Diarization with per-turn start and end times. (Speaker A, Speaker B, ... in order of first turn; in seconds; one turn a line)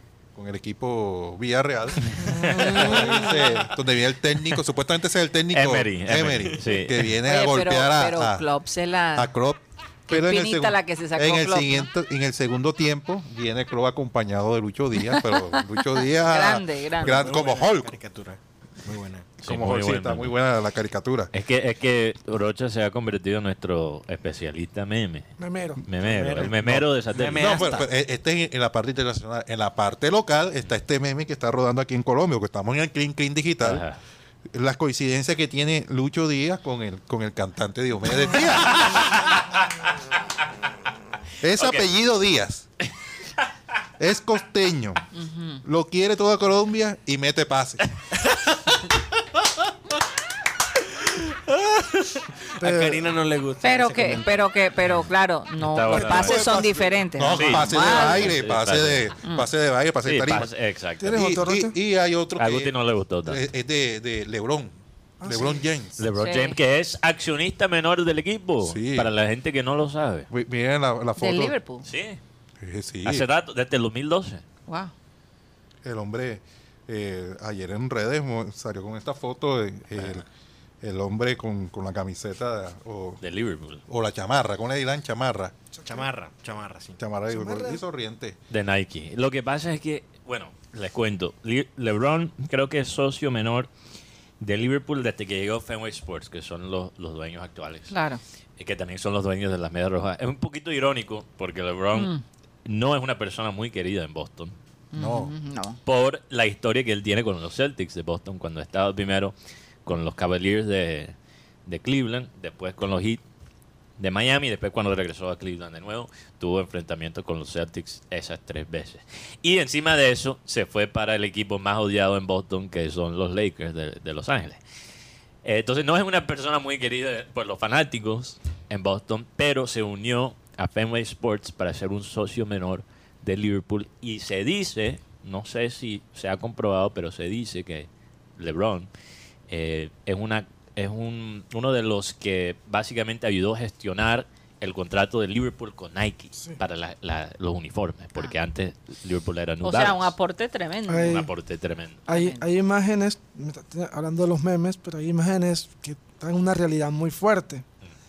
Speaker A: 0.3-8.5
Speaker B: 2.2-3.0
Speaker C: 2.4-3.4
Speaker B: 5.5-7.1
Speaker D: 7.2-9.3
Speaker A: 9.2-18.0
Speaker D: 10.1-11.9
Speaker D: 15.1-17.2
Speaker E: 17.0-19.3
Speaker B: 19.4-20.4
Speaker A: 19.4-21.3
Speaker B: 21.3-25.3
Speaker C: 25.4-25.8
Speaker B: 25.8-27.8
Speaker E: 26.0-27.9
Speaker A: 26.6-33.9
Speaker B: 33.6-34.0
Speaker A: 34.5-39.2
Speaker B: 38.8-39.2
Speaker A: 41.4-42.7
Speaker B: 41.6-41.9
Speaker A: 44.0-45.0
Speaker D: 45.1-45.6
Speaker A: 45.6-47.9
Speaker E: 50.9-54.4
Speaker C: 52.6-53.2
Speaker D: 53.6-58.4
Speaker B: 54.9-56.5
Speaker A: 55.9-60.5
Speaker C: 56.3-56.6
Speaker B: 57.3-59.1
Speaker B: 60.0-61.2
Speaker C: 61.0-61.8
Speaker A: 61.0-62.7
Speaker B: 62.4-63.4
Speaker A: 63.2-66.0
Speaker C: 65.2-65.6
Speaker B: 66.0-70.3
Speaker D: 66.2-66.6
Speaker A: 68.6-69.1
Speaker A: 70.3-71.6
Speaker D: 71.2-71.9
Speaker B: 71.8-72.2
Speaker A: 72.6-73.2
Speaker B: 73.0-74.4
Speaker D: 74.7-74.9
Speaker A: 75.8-80.2
Speaker A: 80.8-83.2
Speaker B: 83.2-83.8
Speaker A: 83.9-85.5
Speaker C: 85.7-86.1
Speaker E: 85.9-87.0
Speaker A: 87.0-88.4
Speaker C: 87.3-87.8
Speaker B: 88.5-93.7
Speaker B: 94.4-97.9
Speaker D: 97.9-98.2
Speaker B: 98.6-102.1
Speaker D: 101.9-102.2
Speaker B: 102.7-104.5
Speaker D: 104.9-105.8
Speaker A: 105.0-105.3
Speaker B: 105.8-109.3
Speaker B: 109.8-111.2
Speaker B: 111.7-113.2
Speaker B: 114.0-124.6
Speaker B: 125.4-138.9
Speaker B: 139.5-150.1
Speaker D: 149.6-151.2
Speaker C: 150.9-151.3
Speaker B: 151.1-152.1
Speaker C: 152.1-157.7
Speaker D: 152.1-152.4